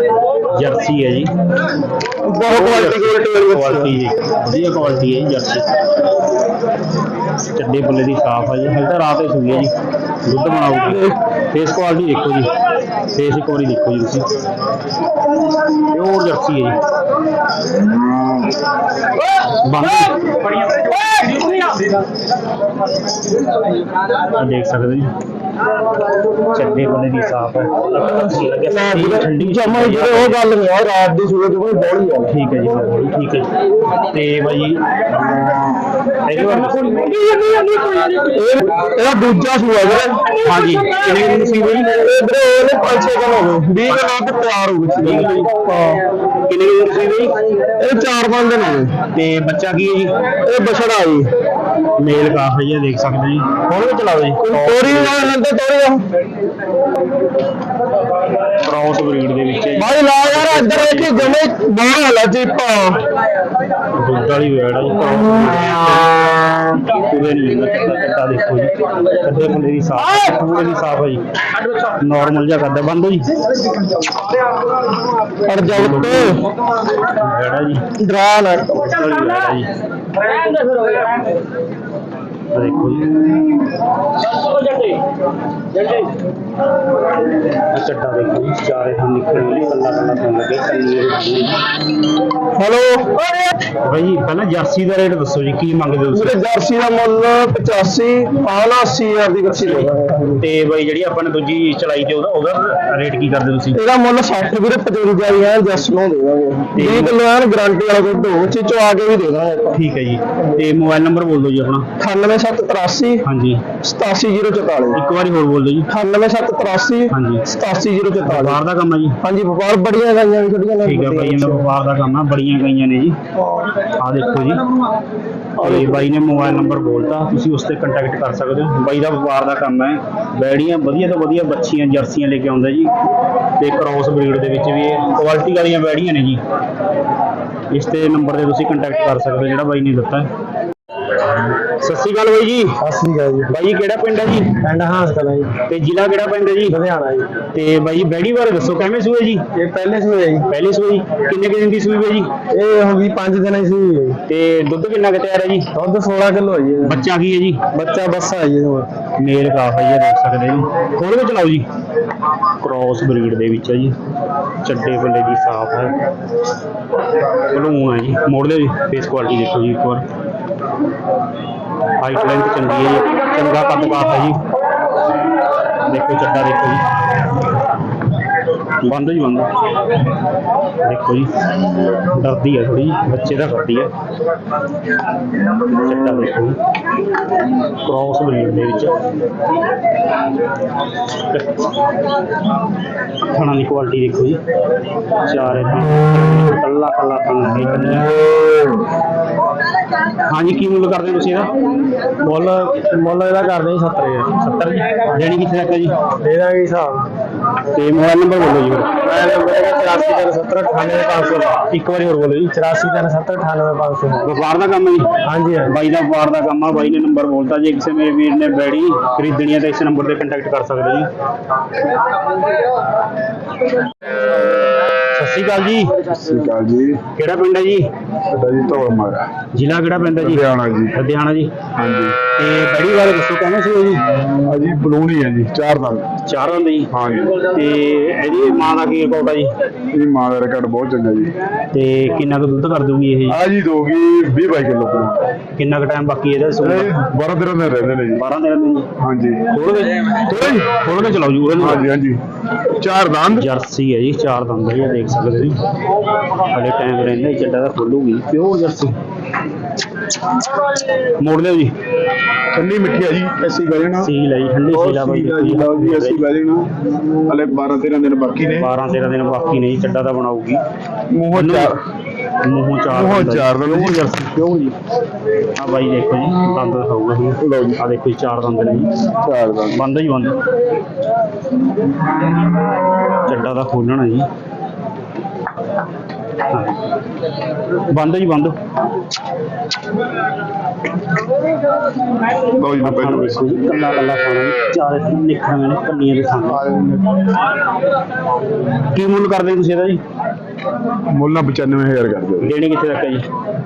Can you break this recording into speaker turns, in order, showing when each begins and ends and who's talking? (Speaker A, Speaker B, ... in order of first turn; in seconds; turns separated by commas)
Speaker A: 0.5-1.3, Speaker B: 2.2-4.0, Speaker A: 2.5-5.6, Speaker A: 7.5-9.7, Speaker A: 10.2-12.5, Speaker B: 10.9-11.1, Speaker A: 13.1-14.3, Speaker A: 15.9-16.8, Speaker A: 19.6-20.1, Speaker B: 20.7-21.4, Speaker A: 24.4-25.1, Speaker A: 26.5-30.4, Speaker B: 28.6-32.3, Speaker A: 32.3-33.5, Speaker A: 34.1-34.8, Speaker A: 36.2-37.0, Speaker B: 37.0-40.2, Speaker A: 40.4-41.9, Speaker B: 41.8-46.0, Speaker A: 45.0-45.5, Speaker A: 46.5-47.4, Speaker B: 47.8-48.9, Speaker A: 49.1-50.1, Speaker B: 50.5-51.3, Speaker A: 52.0-55.3, Speaker B: 54.4-56.0, Speaker A: 58.5-61.4, Speaker B: 59.8-63.0, Speaker A: 63.9-71.2, Speaker A: 71.8-73.3, Speaker B: 75.5-76.4, Speaker A: 75.6-76.4, Speaker A: 77.1-77.8, Speaker B: 78.0-79.0, Speaker A: 78.8-79.7, Speaker A: 82.5-83.2, Speaker A: 87.7-91.6, Speaker B: 92.5-93.5, Speaker A: 93.8-96.4, Speaker B: 96.1-100.4, Speaker A: 99.5-103.8, Speaker B: 103.7-109.8, Speaker A: 106.8-107.1, Speaker A: 109.8-111.9, Speaker B: 112.0-113.2, Speaker A: 113.2-113.7, Speaker B: 113.8-115.0, Speaker A: 114.9-115.9, Speaker B: 115.9-118.6, Speaker A: 117.1-117.5, Speaker A: 118.2-119.2, Speaker B: 119.2-121.7, Speaker A: 120.8-123.2, Speaker B: 123.4-123.7, Speaker A: 124.0-124.6, Speaker B: 125.6-126.0, Speaker A: 125.6-132.9, Speaker A: 133.6-136.4, Speaker A: 137.7-140.3, Speaker A: 141.6-142.8, Speaker B: 142.8-143.5, Speaker A: 143.5-144.5, Speaker B: 144.6-145.5, Speaker A: 145.7-146.8, Speaker B: 146.7-147.3, Speaker A: 147.5-149.4, Speaker B: 149.5-150.5, Speaker A: 150.5-152.3, Speaker B: 152.5-154.2, Speaker A: 154.3-155.7, Speaker B: 155.8-157.0, Speaker A: 156.8-157.6, Speaker B: 157.7-158.9, Speaker A: 159.2-161.7, Speaker A: 162.6-163.9, Speaker A: 164.6-166.0, Speaker A: 167.5-170.1, Speaker A: 172.0-174.4, Speaker A: 175.8-176.8, Speaker A: 178.8-179.5, Speaker A: 180.8-181.3, Speaker A: 182.1-183.9, Speaker A: 185.8-186.6, Speaker A: 187.8-188.9, Speaker A: 191.2-191.6, Speaker A: 193.3-194.4, Speaker A: 195.2-198.1, Speaker A: 200.2-201.5, Speaker B: 202.2-205.2, Speaker A: 205.0-205.9, Speaker B: 206.2-207.1, Speaker A: 207.7-208.9, Speaker B: 209.0-211.6, Speaker A: 211.7-212.5, Speaker B: 212.5-214.3, Speaker A: 214.2-215.1, Speaker B: 215.2-215.8, Speaker A: 215.6-221.1, Speaker A: 225.1-226.1, Speaker C: 226.1-227.0, Speaker A: 227.2-227.9, Speaker C: 228.3-229.3, Speaker A: 229.5-231.5, Speaker C: 230.2-231.0, Speaker C: 231.8-232.2, Speaker A: 232.4-234.0, Speaker C: 234.5-236.1, Speaker A: 236.2-236.9, Speaker C: 236.9-237.4, Speaker A: 237.5-239.5, Speaker C: 239.9-241.3, Speaker A: 241.7-243.4, Speaker C: 243.3-245.2, Speaker A: 245.6-246.9, Speaker C: 246.6-248.2, Speaker A: 248.1-248.9, Speaker C: 249.0-249.5, Speaker A: 249.5-251.9, Speaker C: 251.6-252.2, Speaker C: 252.8-253.4, Speaker A: 253.3-255.6, Speaker A: 256.5-259.0, Speaker A: 261.2-261.8, Speaker C: 262.5-264.1, Speaker A: 264.0-266.2, Speaker C: 264.7-266.7, Speaker C: 267.3-268.7, Speaker A: 268.5-270.6, Speaker C: 271.1-271.7, Speaker A: 271.3-271.7, Speaker A: 272.4-274.8, Speaker C: 272.9-274.1, Speaker A: 275.6-278.9, Speaker C: 277.4-277.8, Speaker C: 279.2-279.8, Speaker A: 279.8-280.4, Speaker A: 283.3-284.3, Speaker A: 286.5-286.8, Speaker A: 287.9-288.6, Speaker C: 292.6-293.4, Speaker A: 292.8-296.8, Speaker C: 296.6-297.1, Speaker A: 298.9-300.0, Speaker C: 301.1-302.5, Speaker A: 302.4-303.2